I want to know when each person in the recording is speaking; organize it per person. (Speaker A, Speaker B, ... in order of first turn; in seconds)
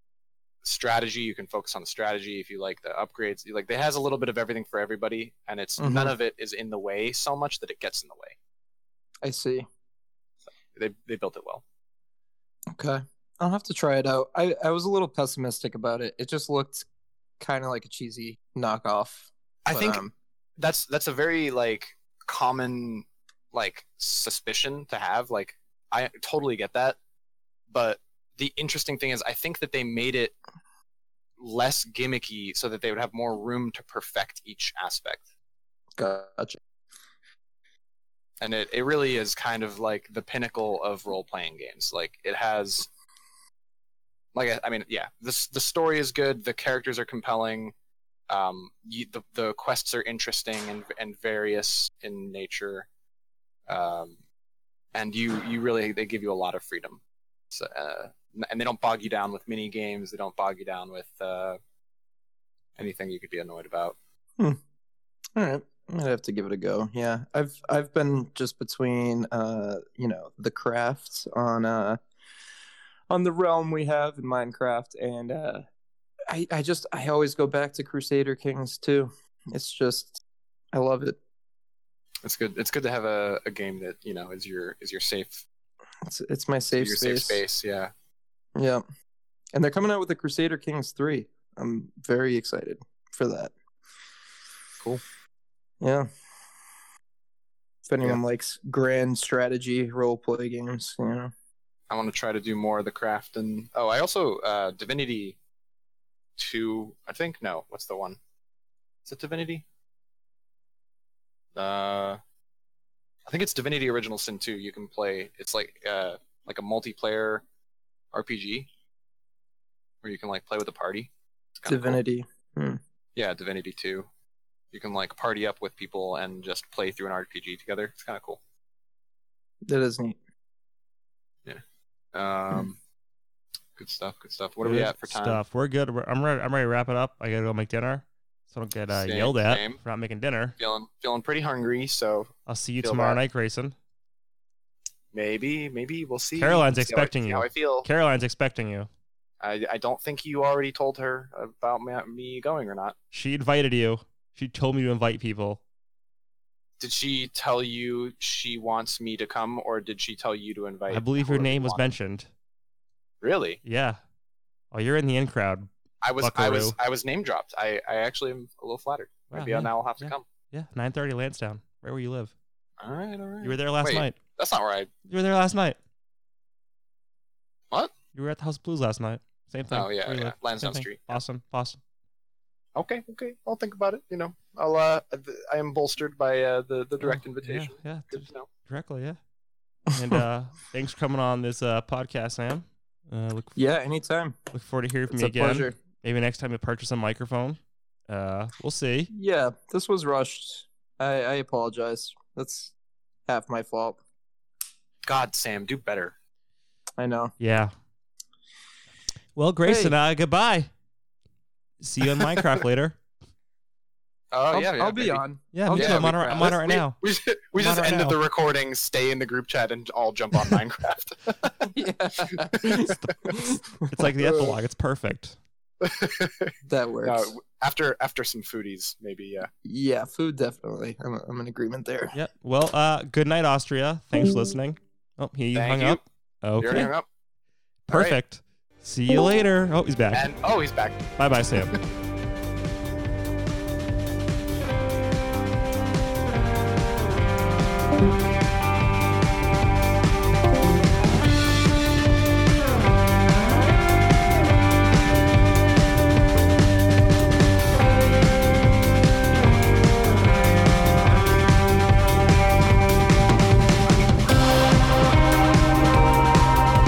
Speaker A: 0.6-8.3, 10.7-11.6, 19.7-20.0, 20.6-27.0, 27.7-30.4, 31.4-35.2, 38.4-42.9, 44.4-47.7, 48.3-52.9, 53.7-54.2, 54.9-57.0, 57.5-61.6, 62.8-64.0, 82.2-85.4, 86.7-87.9, 101.9-105.4, 106.4-108.2, 109.1-109.7, 111.6-112.2, 113.3-117.4, 118.1-118.7, 120.0-122.0, 123.2-124.1, 124.7-128.4, 132.1-132.8, 133.8-135.4, 138.9-139.8, 140.6-143.2, 145.1-147.9, 149.4-152.9, 156.8-161.8, 163.2-163.6, 166.0-170.3, 172.8-174.9, 179.7-181.2, 182.8-188.5, 205.1-206.2, 214.3-221.5, 222.3-223.0, 224.2-224.5, 225.8-229.5, 235.5-236.0, 236.6-237.1, 237.9-238.2, 240.1-241.2
Speaker B: 5.8-6.2, 9.2-9.7, 12.7-16.9, 17.4-20.1, 36.0-36.6, 65.4-72.0, 73.1-75.7, 76.3-80.2, 80.7-81.2, 86.0-87.4, 88.5-88.8, 89.5-93.5, 95.8-96.1, 97.9-101.3, 121.7-122.8, 129.7-130.2, 189.9-190.2, 193.6-194.4, 195.1-195.8, 199.1-202.7, 203.3-204.0, 207.0-207.3, 209.6-209.9, 214.5-216.5, 221.6-224.1, 226.7-227.3, 229.7-232.2
Speaker C: 134.6-140.6, 142.5-143.8, 146.4-148.9, 153.1-155.6, 160.9-162.3, 163.7-164.0, 164.7-165.7, 166.2-166.8, 169.3-172.3, 173.4-174.2, 175.1-175.8, 178.2-181.8, 187.0-189.2, 189.9-193.6, 194.5-199.1, 207.4-207.7, 209.4-210.7, 211.8-213.0, 215.5-217.0, 217.5-218.2, 223.0-225.4, 232.1-236.9, 237.9-240.3, 241.2-241.7